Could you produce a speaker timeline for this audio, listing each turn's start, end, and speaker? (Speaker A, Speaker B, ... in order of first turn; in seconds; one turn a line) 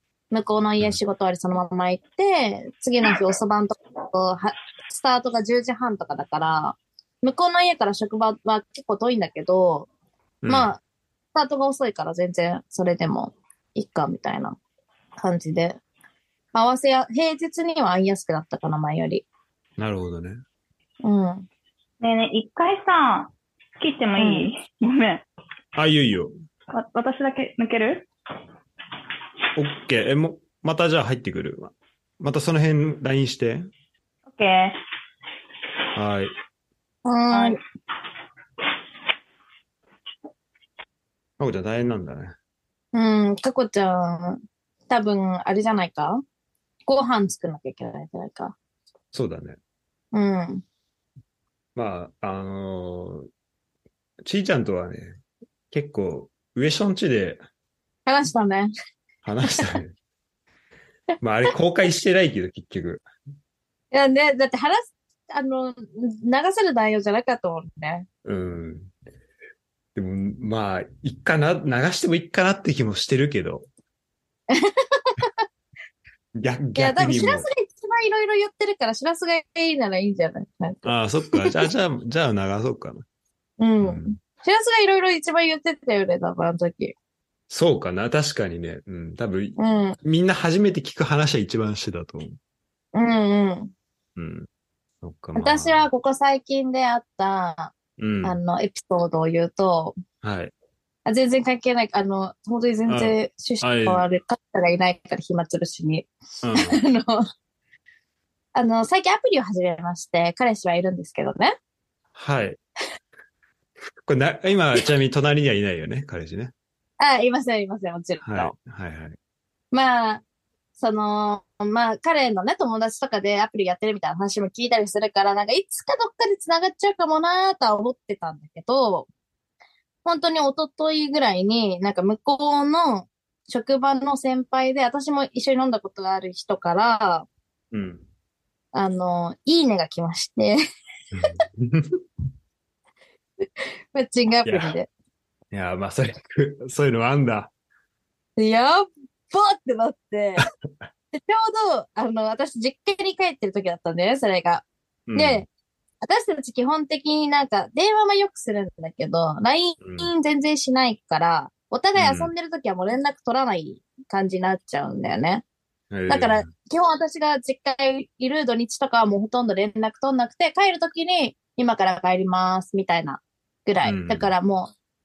Speaker A: 0.3-9.9
Speaker B: 10.4-10.7
Speaker A: 10.5-10.8
Speaker A: 11.3-14.6
Speaker A: 15.2-15.8
Speaker A: 16.5-19.2
Speaker B: 19.8-20.4
Speaker A: 21.0-21.5
Speaker C: 22.0-25.2
Speaker A: 24.2-24.5
Speaker B: 25.7-26.3
Speaker C: 26.7-28.1
Speaker B: 29.6-33.7
Speaker C: 34.2-34.8
Speaker B: 35.9-36.3
Speaker A: 37.0-37.6
Speaker C: 37.3-37.6
Speaker B: 41.4-42.4
Speaker A: 42.9-46.2
Speaker A: 46.9-48.5
Speaker B: 49.1-49.6
Speaker A: 50.1-50.6
Speaker B: 51.7-53.3
Speaker B: 54.2-55.2
Speaker B: 55.7-57.4
Speaker A: 58.0-58.7
Speaker B: 59.2-60.0
Speaker A: 59.4-59.8
Speaker B: 61.2-63.0
Speaker A: 63.9-68.1
Speaker B: 68.2-68.9
Speaker B: 69.9-73.7
Speaker A: 74.5-75.3
Speaker B: 76.4-77.5
Speaker A: 76.8-81.7
Speaker B: 80.8-83.0
Speaker A: 83.6-86.9
Speaker B: 83.8-84.2
Speaker B: 87.5-92.4
Speaker A: 89.6-90.0
Speaker A: 92.9-93.7
Speaker B: 94.2-94.5
Speaker B: 95.0-95.8
Speaker A: 95.3-100.0
Speaker B: 98.0-98.4
Speaker B: 100.2-100.5
Speaker A: 101.0-107.2
Speaker B: 102.9-104.1
Speaker B: 106.4-106.8
Speaker A: 108.5-111.5
Speaker B: 112.1-112.6
Speaker B: 114.0-116.5
Speaker A: 117.0-118.5
Speaker B: 118.2-119.2
Speaker A: 119.7-120.2
Speaker A: 120.8-129.1
Speaker A: 130.0-137.2
Speaker B: 137.7-138.0
Speaker A: 138.7-140.6
Speaker B: 141.1-142.0
Speaker A: 143.4-144.9
Speaker B: 144.4-144.8
Speaker B: 145.5-147.5
Speaker A: 148.4-150.4
Speaker A: 151.1-155.5
Speaker B: 155.1-155.4
Speaker A: 156.0-165.4
Speaker B: 159.8-160.1
Speaker B: 161.9-162.3
Speaker B: 165.9-166.5
Speaker A: 166.1-174.7
Speaker B: 173.8-174.3